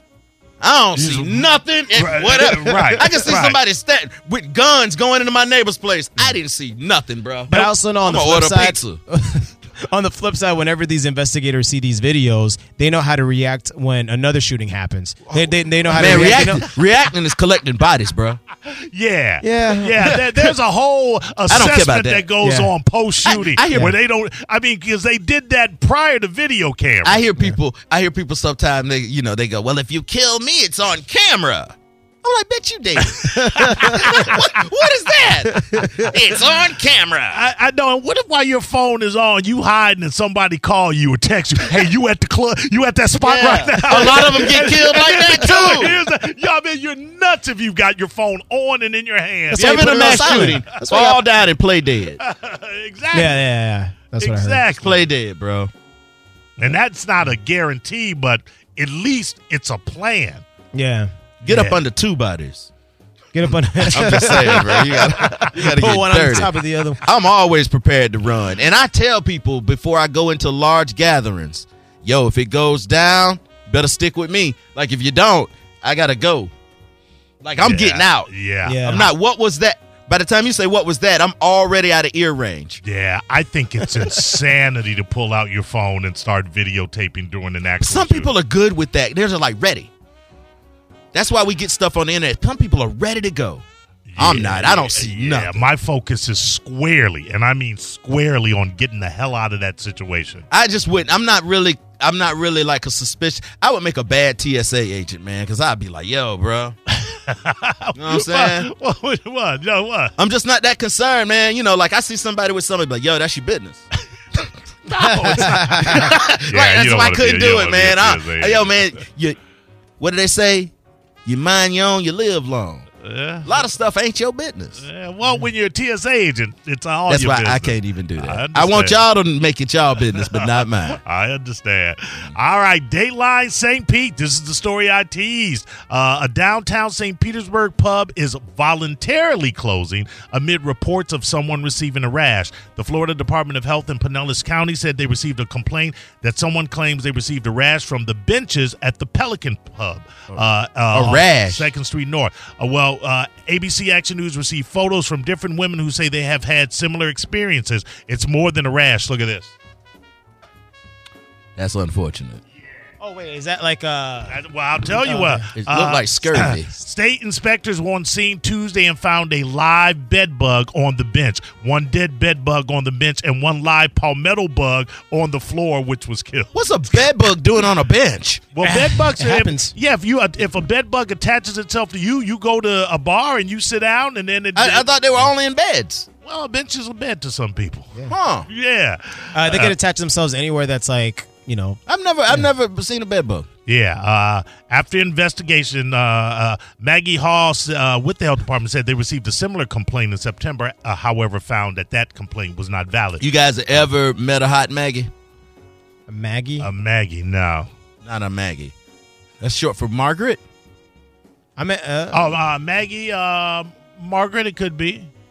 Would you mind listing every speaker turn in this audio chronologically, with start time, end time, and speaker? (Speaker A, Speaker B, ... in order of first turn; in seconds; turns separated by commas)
Speaker A: 0.6-9.0, Speaker B: 1.0-1.4, Speaker B: 1.9-3.6, Speaker C: 2.7-3.0, Speaker C: 7.5-16.6, Speaker A: 15.4-18.4, Speaker B: 18.7-27.2, Speaker C: 19.4-20.5, Speaker A: 21.5-22.3, Speaker C: 22.4-22.7, Speaker A: 23.2-23.9, Speaker A: 27.0-37.4, Speaker B: 33.0-34.6, Speaker C: 33.4-34.3, Speaker C: 35.4-36.1, Speaker B: 37.3-50.6, Speaker A: 43.2-46.0, Speaker C: 49.5-51.2, Speaker A: 49.5-52.2, Speaker B: 52.2-53.4, Speaker C: 53.1-54.6, Speaker B: 54.2-55.1, Speaker A: 54.8-55.7, Speaker B: 56.6-60.4, Speaker C: 60.7-61.1, Speaker A: 61.4-62.7, Speaker B: 61.5-61.8, Speaker C: 63.3-67.0, Speaker A: 63.9-76.5, Speaker A: 77.4-82.8, Speaker B: 77.6-79.1, Speaker C: 78.6-79.1, Speaker B: 82.8-88.3, Speaker A: 87.8-89.9, Speaker A: 91.1-93.6, Speaker B: 94.1-100.5, Speaker A: 94.2-95.7, Speaker A: 100.5-106.7, Speaker B: 106.9-110.1, Speaker A: 108.0-108.7, Speaker A: 110.2-113.8, Speaker B: 114.9-119.0, Speaker C: 115.0-116.1, Speaker A: 115.3-119.3, Speaker A: 120.0-120.7, Speaker A: 121.2-122.9, Speaker B: 123.0-123.5, Speaker A: 123.4-124.8, Speaker B: 124.8-129.0, Speaker A: 127.1-131.0, Speaker B: 130.1-159.5, Speaker A: 150.9-151.7, Speaker A: 161.6-162.4, Speaker C: 163.0-164.4, Speaker B: 164.3-176.5, Speaker C: 165.0-165.5, Speaker A: 165.6-166.8, Speaker A: 176.5-178.4, Speaker B: 178.5-185.3, Speaker C: 178.6-179.7, Speaker A: 184.6-186.1, Speaker B: 186.2-187.9, Speaker A: 188.1-188.5, Speaker B: 188.5-189.7, Speaker C: 189.3-192.5, Speaker A: 191.9-193.4, Speaker B: 193.7-203.2, Speaker A: 203.2-205.1, Speaker C: 206.1-206.7, Speaker B: 206.6-207.7, Speaker A: 208.0-208.7, Speaker A: 209.4-210.4, Speaker C: 211.6-212.3, Speaker B: 212.1-215.1